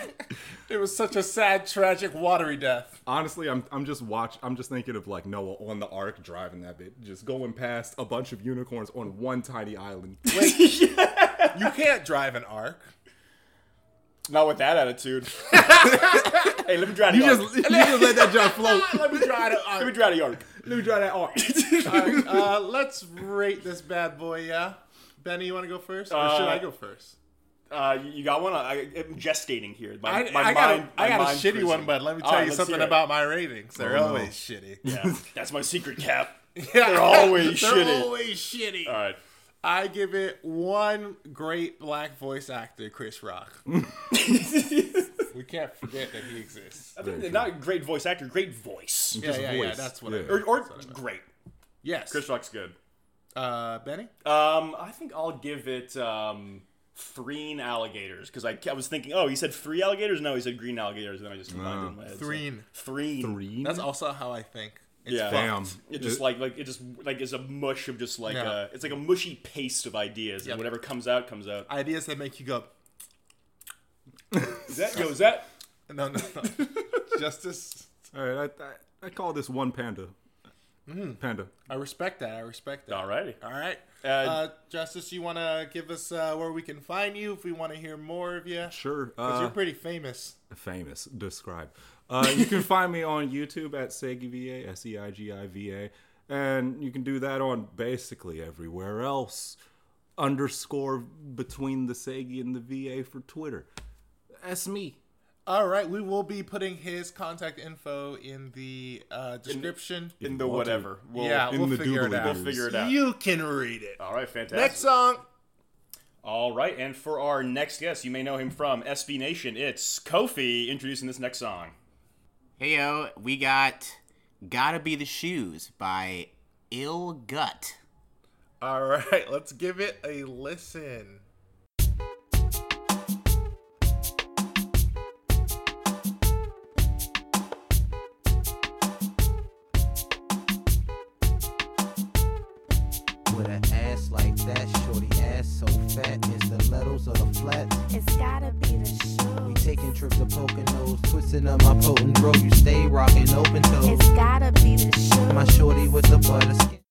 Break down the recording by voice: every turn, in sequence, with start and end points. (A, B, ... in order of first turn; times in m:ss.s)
0:00.7-0:03.0 A
0:03.1-0:10.3 B
0:10.3-0:11.7 C
0:10.3-0:10.8 A
0:11.5-0:12.9 A
0:14.3-0:17.6 C
0:15.5-0:16.6 A
0:17.1-0:19.5 B
0:17.5-0:20.0 A
0:19.8-0:20.6 C
0:20.6-0:22.4 B
0:21.3-0:22.2 C
0:21.9-0:27.2 A
0:26.1-0:26.7 C
0:27.7-0:33.1 C
0:30.0-0:34.8 A
0:33.8-0:34.3 B
0:34.8-0:38.1 C
0:34.8-0:35.2 B
0:36.6-0:39.0 A
0:38.8-0:39.2 C
0:39.6-0:43.6 A
0:44.1-0:45.3 C
0:45.3-0:46.9 A
0:47.0-0:49.2 C
0:47.0-0:47.5 B
0:49.2-0:50.5 B
0:49.2-0:51.0 A
0:50.3-0:51.3 C
0:51.8-0:52.2 A
0:52.1-0:52.8 C
0:53.4-0:54.1 A
0:54.2-1:03.4 C
1:01.5-1:02.0 B
1:02.1-1:02.7 A
1:03.2-1:03.9 B
1:03.6-1:05.8 A
1:05.1-1:11.7 C
1:05.2-1:06.3 B
1:08.3-1:08.6 A
1:10.4-1:10.8 A
1:11.7-1:12.7 A
1:14.7-1:15.5 C
1:15.9-1:18.1 A
1:18.1-1:20.1 B
1:20.9-1:30.4 A
1:21.2-1:21.6 B
1:22.9-1:23.4 C
1:24.0-1:24.4 C
1:28.7-1:29.6 B
1:30.5-1:39.6 B
1:40.2-1:43.7 B
1:44.4-1:45.0 B
1:45.5-1:50.2 A
1:49.5-1:53.0 C
1:50.2-1:52.7 B
1:51.1-1:55.2 A
1:54.0-1:54.9 C
1:56.2-2:01.8 C
2:02.6-2:07.8 D
2:08.6-2:11.2 A
2:23.3-2:27.8 E
2:27.9-2:29.7 F
2:29.4-2:34.1 E
2:33.8-2:35.9 F
2:35.3-2:36.8 E